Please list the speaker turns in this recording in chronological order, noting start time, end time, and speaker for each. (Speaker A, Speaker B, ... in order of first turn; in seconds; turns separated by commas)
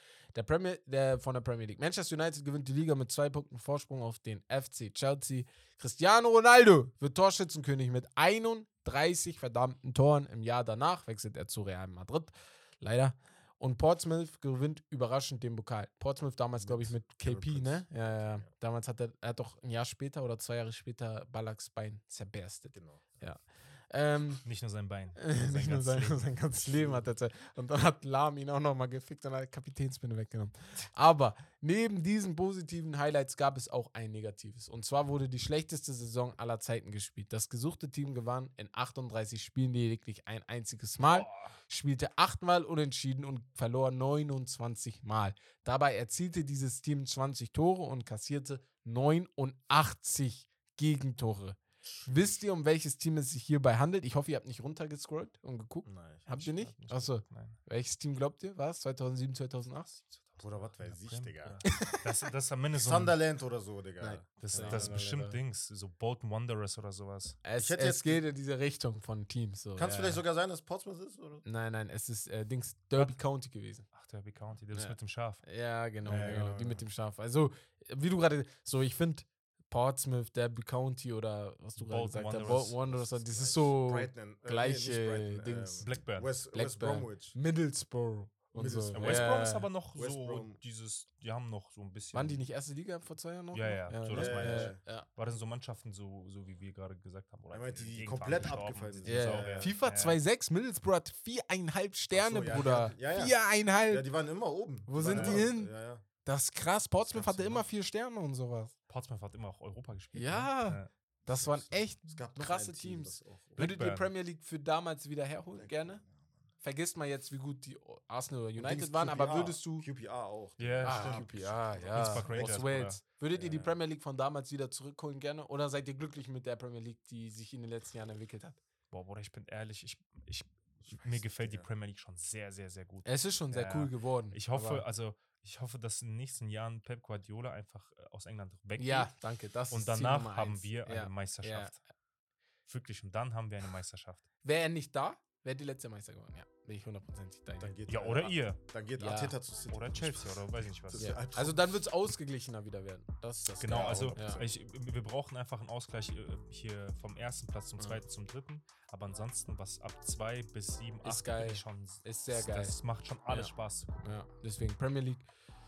Speaker A: 0.3-24.4, Speaker B: 16.6-18.5, Speaker B: 22.7-23.2, Speaker C: 24.4-27.0, Speaker A: 25.2-59.9, Speaker C: 41.0-41.6, Speaker B: 51.8-52.4, Speaker B: 55.9-56.3, Speaker C: 56.3-57.6, Speaker C: 59.9-63.1, Speaker B: 60.4-61.6, Speaker A: 61.6-62.0, Speaker B: 62.7-65.0, Speaker A: 64.0-65.4, Speaker C: 64.4-67.4, Speaker A: 67.4-70.2, Speaker B: 67.6-68.2, Speaker B: 69.8-71.5, Speaker A: 71.5-73.9, Speaker C: 73.9-75.4, Speaker A: 74.7-85.9, Speaker B: 76.0-76.8, Speaker C: 81.8-83.3, Speaker B: 83.3-87.4, Speaker C: 85.8-86.3, Speaker A: 86.5-89.7, Speaker B: 88.5-89.4, Speaker C: 88.9-92.4, Speaker B: 90.0-90.6, Speaker A: 92.1-95.1, Speaker C: 93.5-100.2, Speaker B: 94.1-94.8, Speaker B: 97.5-99.8, Speaker A: 99.0-104.1, Speaker B: 102.1-103.4, Speaker B: 103.9-106.0, Speaker A: 104.9-105.7, Speaker C: 105.0-105.5, Speaker A: 106.2-108.7, Speaker B: 107.1-107.6, Speaker C: 108.9-110.9, Speaker A: 110.1-116.0, Speaker B: 111.3-113.7, Speaker C: 113.6-114.1, Speaker B: 115.5-116.2, Speaker A: 116.6-119.9, Speaker B: 118.6-122.5, Speaker C: 120.6-121.3, Speaker A: 120.8-128.6, Speaker C: 121.9-123.0, Speaker B: 123.3-123.8, Speaker C: 128.9-139.1, Speaker B: 130.8-131.7, Speaker A: 133.1-134.8, Speaker A: 138.8-141.8, Speaker C: 139.7-141.8, Speaker C: 142.7-144.2, Speaker A: 144.4-147.8, Speaker B: 147.6-151.8, Speaker C: 147.9-148.6, Speaker A: 149.0-149.3, Speaker C: 149.7-151.2, Speaker A: 151.0-154.4, Speaker C: 153.6-163.9, Speaker B: 153.7-154.4, Speaker A: 161.0-162.8, Speaker A: 163.3-165.3